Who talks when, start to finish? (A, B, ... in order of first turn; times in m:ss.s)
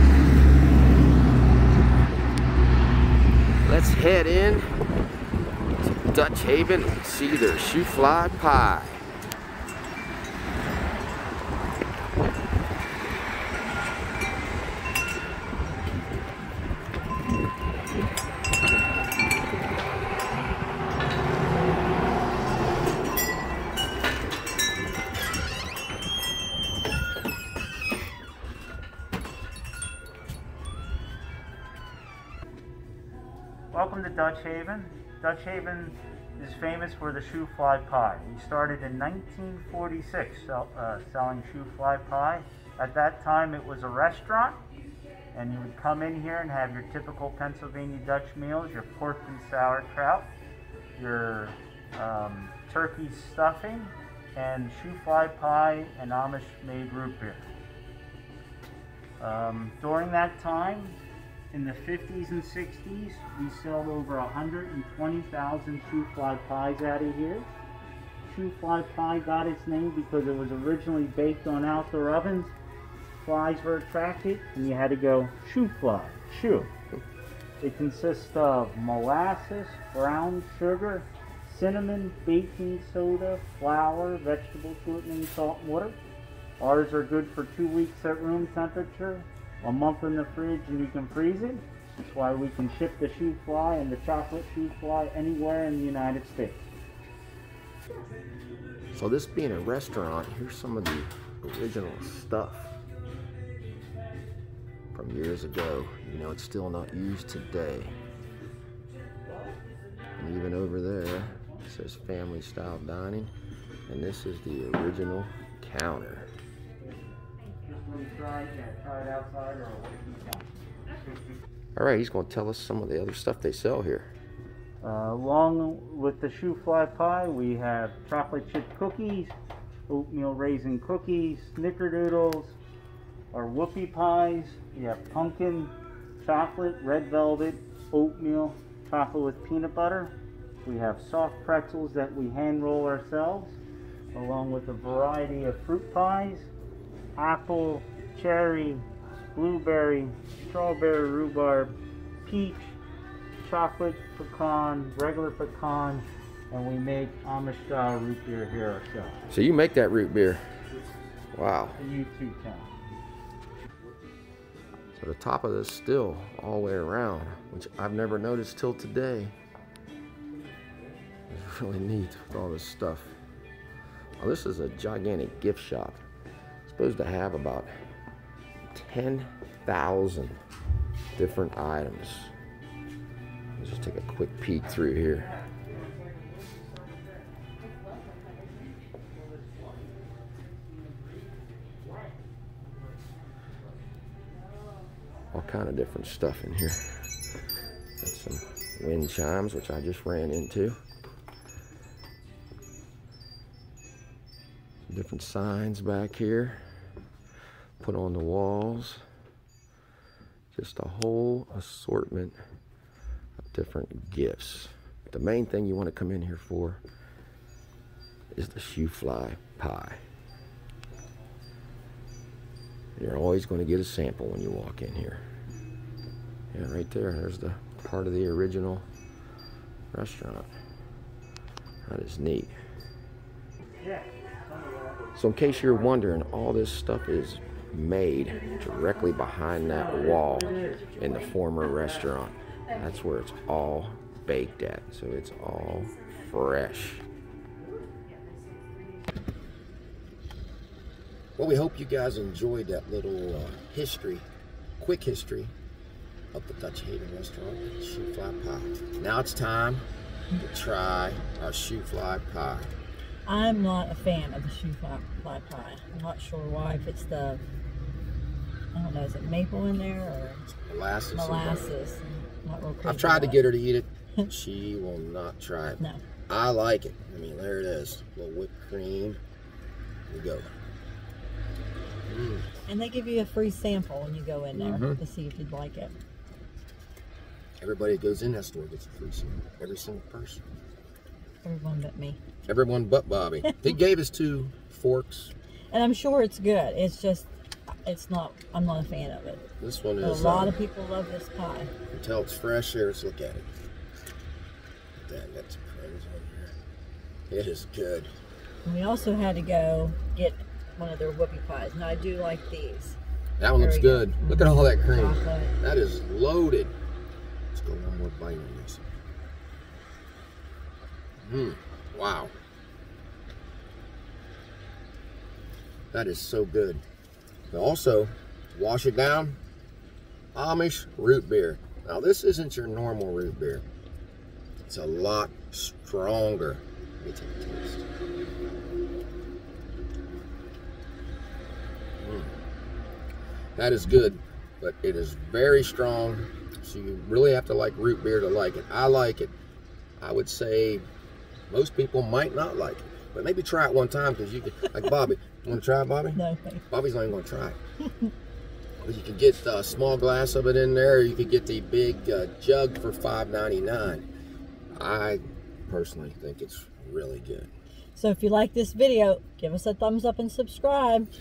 0:03.6-0:04.7 A
0:05.8-0:09.0 A
0:33.7-0:44.6 B
0:45.3-0:50.3 B
0:51.0-0:57.5 B
0:59.2-1:01.0 B
1:01.5-1:07.5 B
1:08.2-1:12.5 B
1:13.2-1:16.7 B
1:17.6-1:26.0 B
1:26.6-1:36.6 B
1:38.9-1:42.8 A
1:44.9-1:48.0 A
1:50.2-1:53.3 A
1:53.9-1:56.3 A
1:56.8-2:00.5 B
2:01.7-2:04.1 A
2:04.8-2:09.3 B
2:09.9-2:12.6 B
2:13.3-2:23.6 B
2:24.1-2:26.5 B
2:27.2-2:32.8 B
2:33.4-2:39.2 B
2:39.3-2:40.4 A
2:41.3-2:41.8 A
2:41.8-2:42.7 B
2:44.9-2:49.3 A
2:51.3-2:53.2 A
2:54.2-2:56.0 A
2:56.6-2:57.7 A
2:58.7-3:00.4 A
3:01.2-3:02.3 A
3:03.6-3:05.3 A
3:15.3-3:17.1 A
3:18.0-3:20.8 A
3:24.9-3:26.6 A
3:27.8-3:29.0 A
3:30.5-3:32.4 A
3:33.5-3:36.8 A
3:38.3-3:40.0 A
3:43.0-3:45.2 A
3:46.5-3:48.8 A
3:49.9-3:50.5 A
3:51.8-3:52.6 A
3:53.8-3:55.1 B
3:55.1-4:07.0 A
3:59.7-4:00.9 B
4:11.4-4:14.3 A
4:14.8-4:15.5 A
4:16.3-4:22.7 A
4:23.2-4:27.4 C
4:28.7-4:30.4 C
4:30.5-4:31.7 A
4:31.1-4:33.4 C
4:32.8-4:39.2 A
4:40.1-4:40.5 A
4:42.1-4:42.5 A
4:42.7-4:46.0 C
4:44.5-4:45.0 A
4:47.6-4:50.4 A
4:51.4-4:52.2 C
4:52.4-4:55.3 A
4:53.4-4:53.7 C
4:55.7-4:57.3 C
4:57.8-4:59.4 C
4:59.6-5:00.6 A
5:00.0-5:01.7 C
5:01.9-5:03.5 A
5:04.9-5:06.6 A
5:07.3-5:08.1 A
5:08.6-5:13.0 C
5:13.4-5:16.7 A
5:13.6-5:15.5 C
5:17.5-5:18.8 A
5:21.2-5:22.3 A
5:25.9-5:26.8 A
5:27.5-5:29.4 A
5:30.3-5:33.6 A
5:34.6-5:37.9 A
5:42.0-5:42.4 A
5:43.6-5:49.3 A
5:50.0-5:50.8 A
5:51.5-5:56.2 A
5:56.1-5:56.6 C
5:56.7-5:57.6 A
5:58.8-6:04.0 A
6:04.7-6:07.5 A
6:07.9-6:11.1 C